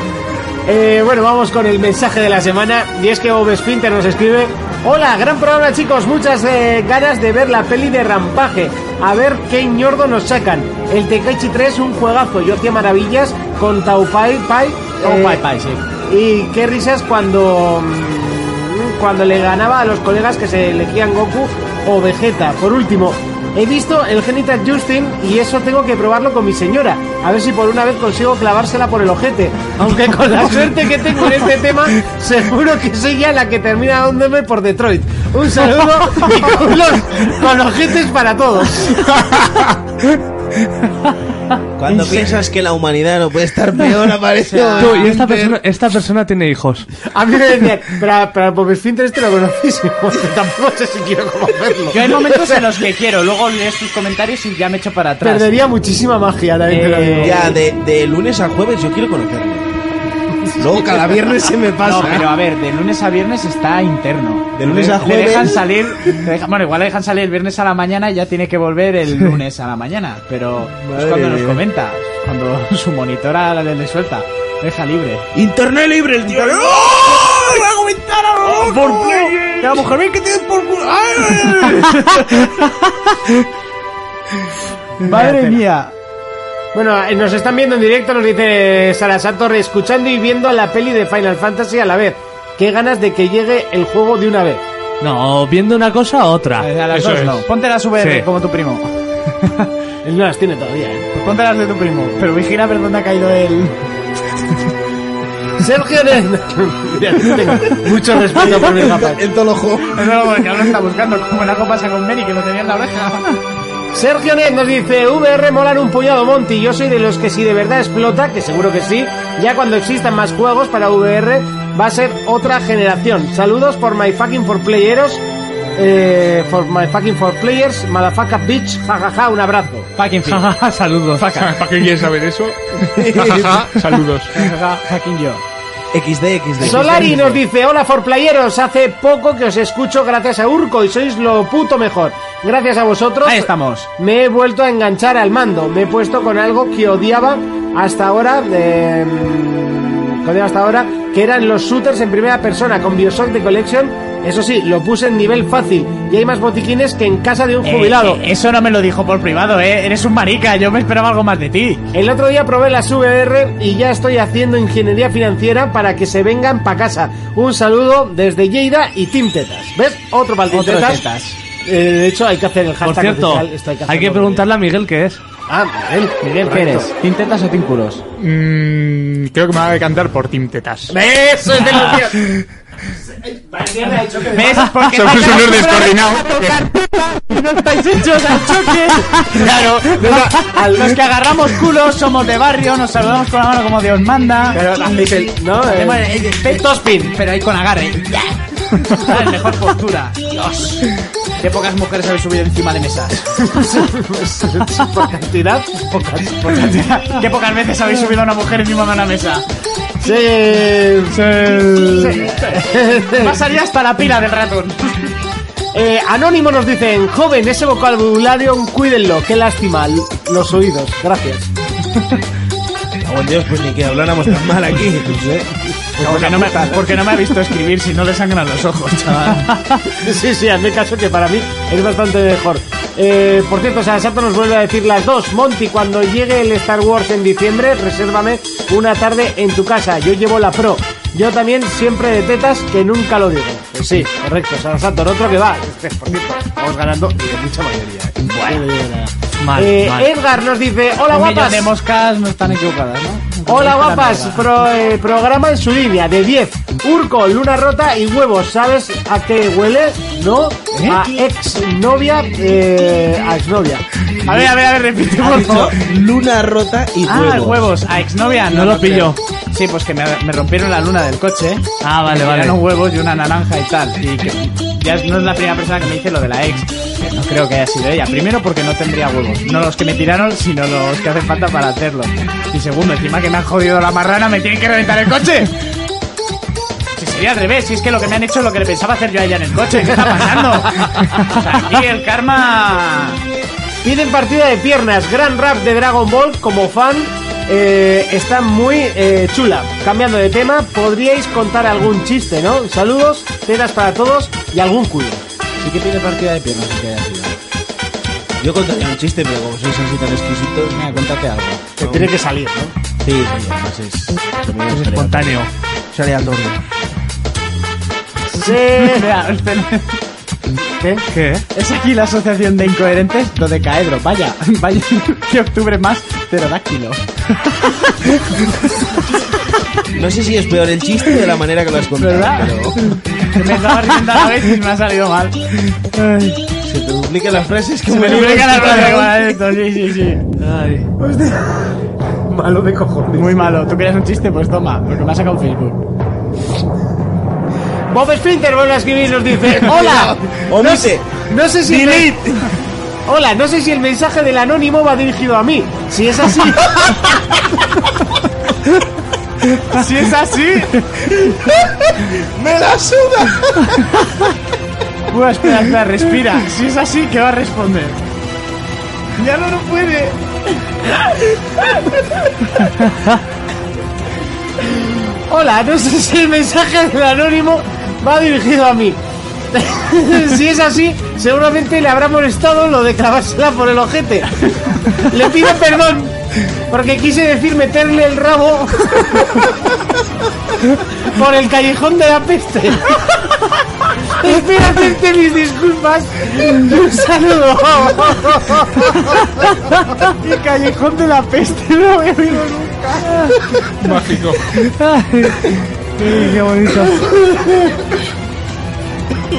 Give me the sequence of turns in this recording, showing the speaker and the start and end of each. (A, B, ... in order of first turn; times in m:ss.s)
0:00.7-0:15.4 A
0:15.0-0:15.8 B
0:16.0-0:39.4 A
0:41.8-0:45.4 C
0:41.9-0:42.3 A
0:44.5-0:45.1 B
0:44.6-0:45.5 A
0:44.8-0:46.9 D
0:47.1-0:52.7 A
0:51.9-0:55.6 B
0:55.2-0:57.6 A
0:56.7-0:57.5 B
0:57.2-0:59.7 C
1:00.6-1:02.3 C
1:01.8-1:15.3 B
1:04.6-1:06.2 C
1:10.8-1:11.6 C
1:15.3-1:21.8 C
1:16.2-1:16.8 B
1:18.4-1:20.0 B
1:21.2-1:23.1 B
1:25.0-1:25.6 A
1:25.0-1:25.9 B
1:26.7-1:34.6 A
1:35.0-1:36.7 D
1:36.6-1:38.9 B
1:36.9-1:37.4 E
1:38.0-1:38.3 D
1:40.0-1:41.1 A
1:41.1-1:43.8 B
1:45.6-1:49.2 A
1:48.4-1:50.1 C
1:49.9-1:53.4 B
1:53.9-2:05.2 A
2:05.8-2:09.9 A
2:10.0-2:10.5 B
2:10.2-2:11.4 D
2:11.2-2:11.7 B
2:11.4-2:14.3 E
2:12.9-2:13.8 C
2:14.3-2:15.4 B
2:15.9-2:17.3 C
2:16.6-2:38.2 A
2:16.6-2:17.4 B
2:23.2-2:23.9 B
2:37.6-2:41.8 B
2:41.9-2:51.0 A
2:50.5-2:51.4 B
2:51.6-2:54.5 A
2:52.8-2:55.2 D
2:55.5-2:56.9 A
2:56.2-2:58.0 B
2:58.2-3:00.9 E
3:00.9-3:02.3 A
3:03.1-3:04.8 A
3:04.3-3:15.0 B
3:04.8-3:06.7 E
3:09.3-3:11.0 A
3:14.5-3:17.2 A
3:15.6-3:20.9 B
3:21.4-3:23.6 B
3:23.5-3:27.2 A
3:26.5-3:29.4 B
3:30.0-3:31.2 A
3:31.2-3:32.6 B
3:31.9-3:33.4 A
3:33.1-3:35.1 B
3:35.7-3:41.5 A
3:43.0-3:45.4 C
3:46.0-3:49.6 B
3:46.0-3:46.8 C
3:46.0-3:46.7 A
3:50.0-4:11.7 A
4:08.4-4:08.6 B
4:09.4-4:10.1 D
4:11.1-4:14.5 B
4:13.5-4:23.8 A
4:20.7-4:21.1 B
4:24.2-4:25.8 B
4:25.2-4:27.7 C
4:27.1-4:45.5 B
4:28.5-4:29.2 D
4:31.8-4:32.6 D
4:47.0-4:53.2 B
4:53.8-5:05.2 A
5:05.6-5:07.4 B
5:08.4-5:11.0 C
5:10.7-5:11.6 B
5:11.8-5:12.7 A
5:11.8-5:12.1 C
5:13.0-5:16.6 C
5:14.7-5:15.5 D
5:18.3-5:19.1 A
5:18.4-5:20.0 B
5:20.8-5:21.1 A
5:21.1-5:21.5 D
5:21.5-5:27.0 B
5:27.6-5:28.1 B
5:29.9-5:33.0 C
5:32.0-5:32.6 B
5:33.2-5:35.4 B
5:35.9-5:36.4 D
5:36.6-5:39.2 C
5:37.9-5:40.2 B
5:40.4-5:40.9 D
5:41.0-5:43.6 A
5:43.1-5:45.8 B
5:47.9-5:52.2 A
5:49.6-5:52.5 C
5:53.1-5:57.2 A
5:59.7-6:00.8 B
6:02.0-6:03.8 C
6:05.1-6:08.0 B
6:09.2-6:10.2 B
6:14.6-6:19.0 A
6:19.5-6:26.2 A
6:26.7-6:29.5 A
6:31.0-6:33.3 A
6:34.0-6:39.4 A
6:40.1-6:43.1 B
6:43.1-6:44.0 D
6:43.8-6:44.6 E
6:44.5-6:47.2 D
6:47.1-6:47.6 C